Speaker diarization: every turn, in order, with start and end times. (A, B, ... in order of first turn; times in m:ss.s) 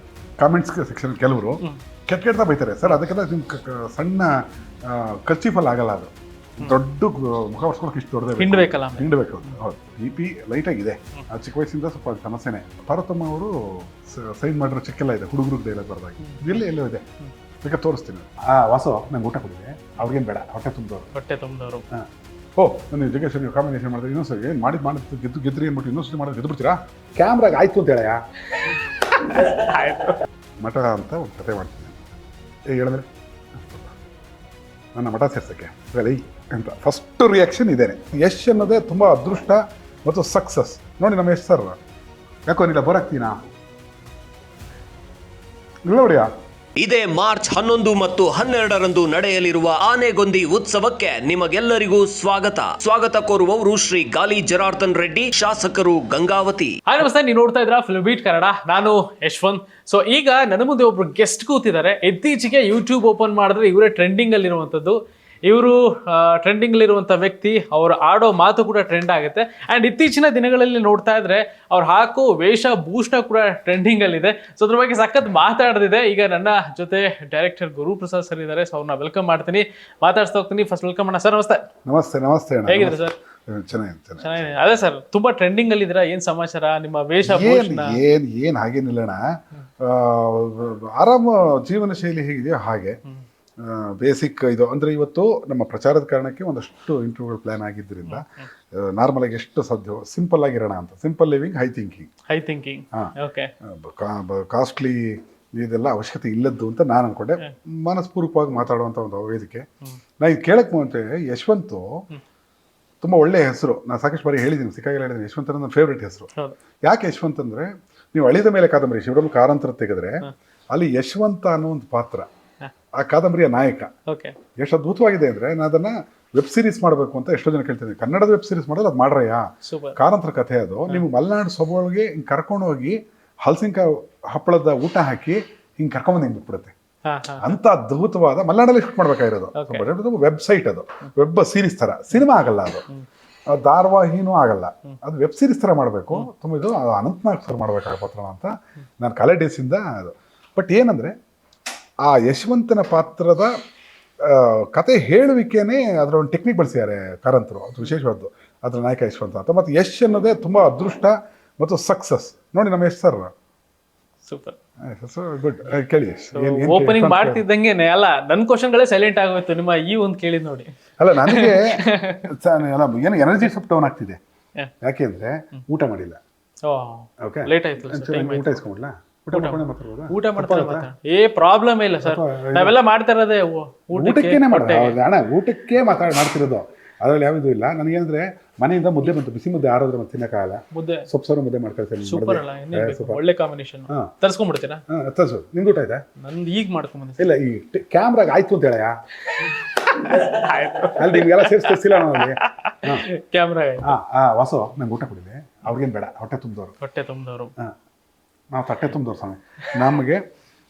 0:00.4-0:17.0 A
0:08.4-0:09.6 B
0:16.2-0:16.6 B
0:17.6-0:21.1 A
0:21.1-0:21.8 B
0:21.9-0:28.2 A
0:29.1-0:30.2 B
0:30.6-0:32.1 A
0:32.7-0:34.0 A
0:35.0-0:41.8 A
0:42.5-0:43.4 A
0:45.9-0:46.3 A
0:46.8-0:56.8 C
0:56.9-1:21.7 B
1:21.8-1:24.5 A
1:22.7-1:23.2 B
1:24.2-1:28.0 B
1:27.2-1:29.2 A
1:29.8-1:33.0 A
1:33.6-1:42.1 A
1:38.1-1:38.4 B
1:42.3-1:43.5 B
1:42.9-1:49.7 A
1:50.2-1:52.0 A
1:53.0-1:56.3 A
1:56.8-2:02.3 A
2:03.0-2:03.9 A
2:04.1-2:04.4 B
2:04.6-2:16.7 A
2:09.6-2:10.0 B
2:17.0-2:17.6 B
2:17.4-2:22.9 A
2:19.6-2:19.9 B
2:23.5-2:31.1 A
2:32.0-2:33.5 A
2:34.2-2:43.3 A
2:44.3-2:44.6 B
2:44.9-2:47.4 A
2:46.3-2:52.3 B
2:51.0-2:54.2 A
2:54.8-2:56.2 A
2:56.6-2:58.6 B
2:57.2-3:00.9 A
2:59.3-3:05.0 B
3:02.0-3:02.8 A
3:03.9-3:13.2 A
3:10.7-3:11.1 B
3:12.0-3:14.8 B
3:14.9-3:16.0 A
3:16.2-3:17.3 B
3:17.2-3:18.9 A
3:19.3-3:23.9 B
3:20.9-3:23.1 A
3:23.8-3:26.7 A
3:26.8-3:27.5 B
3:28.5-3:30.2 A